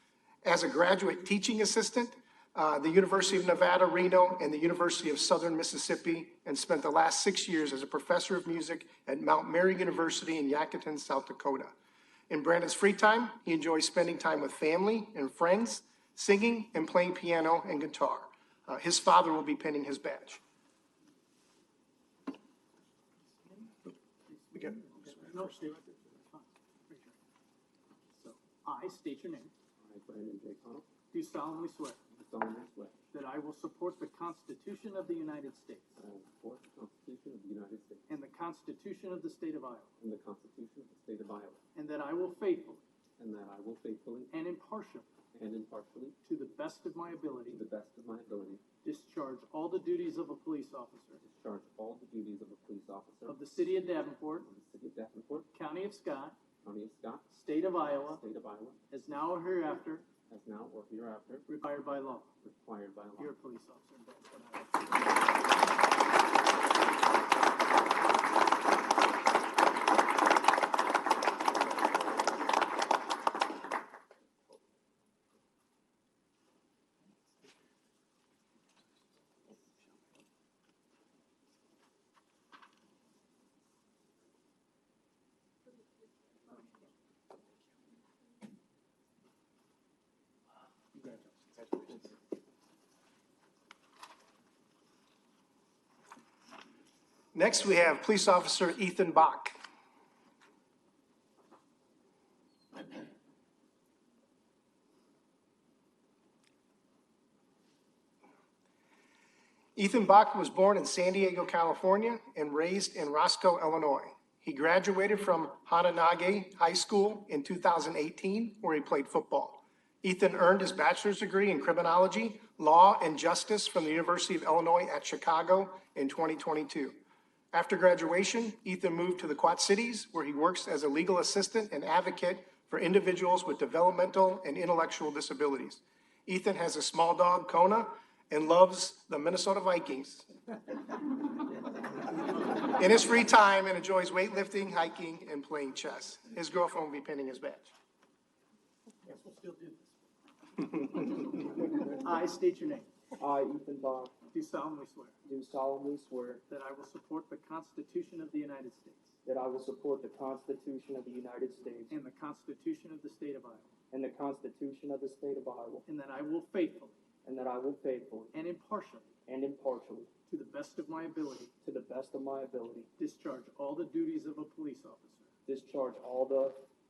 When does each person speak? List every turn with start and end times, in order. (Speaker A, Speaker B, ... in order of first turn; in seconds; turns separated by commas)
Speaker A: 0.4-11.7, Speaker A: 12.3-20.4, Speaker B: 23.4-23.7, Speaker B: 24.3-27.1, Speaker A: 24.6-25.5, Speaker B: 28.1-29.5, Speaker C: 29.8-30.9, Speaker B: 31.1-32.0, Speaker C: 32.1-33.0, Speaker B: 33.1-36.0, Speaker C: 36.0-38.0, Speaker B: 38.1-39.9, Speaker C: 40.0-41.6, Speaker B: 41.7-42.8, Speaker C: 43.2-44.4, Speaker B: 44.3-45.1, Speaker C: 45.3-46.2, Speaker B: 46.2-47.6, Speaker C: 47.5-48.6, Speaker B: 48.8-51.2, Speaker C: 51.2-53.4, Speaker B: 53.2-54.5, Speaker C: 54.4-55.5, Speaker B: 55.5-56.4, Speaker C: 56.6-57.3, Speaker B: 57.3-58.2, Speaker C: 58.0-58.8, Speaker B: 58.9-60.0, Speaker C: 60.3-61.5, Speaker B: 61.5-62.3, Speaker C: 62.4-63.3, Speaker B: 63.2-65.2, Speaker B: 91.0-91.8, Speaker A: 97.3-99.5, Speaker A: 109.8-127.0, Speaker A: 127.5-140.3, Speaker A: 142.7-147.7, Speaker B: 149.0-149.9, Speaker B: 150.8-152.9, Speaker D: 153.2-154.1, Speaker B: 154.3-155.2, Speaker D: 155.2-156.4, Speaker B: 156.5-159.2, Speaker D: 159.2-161.9, Speaker B: 161.9-163.7, Speaker D: 163.9-165.8, Speaker B: 165.8-167.0, Speaker D: 167.2-168.3, Speaker B: 168.3-169.1, Speaker D: 169.3-170.1, Speaker B: 170.3-171.5, Speaker D: 171.6-172.9, Speaker B: 173.0-175.3, Speaker D: 175.4-176.6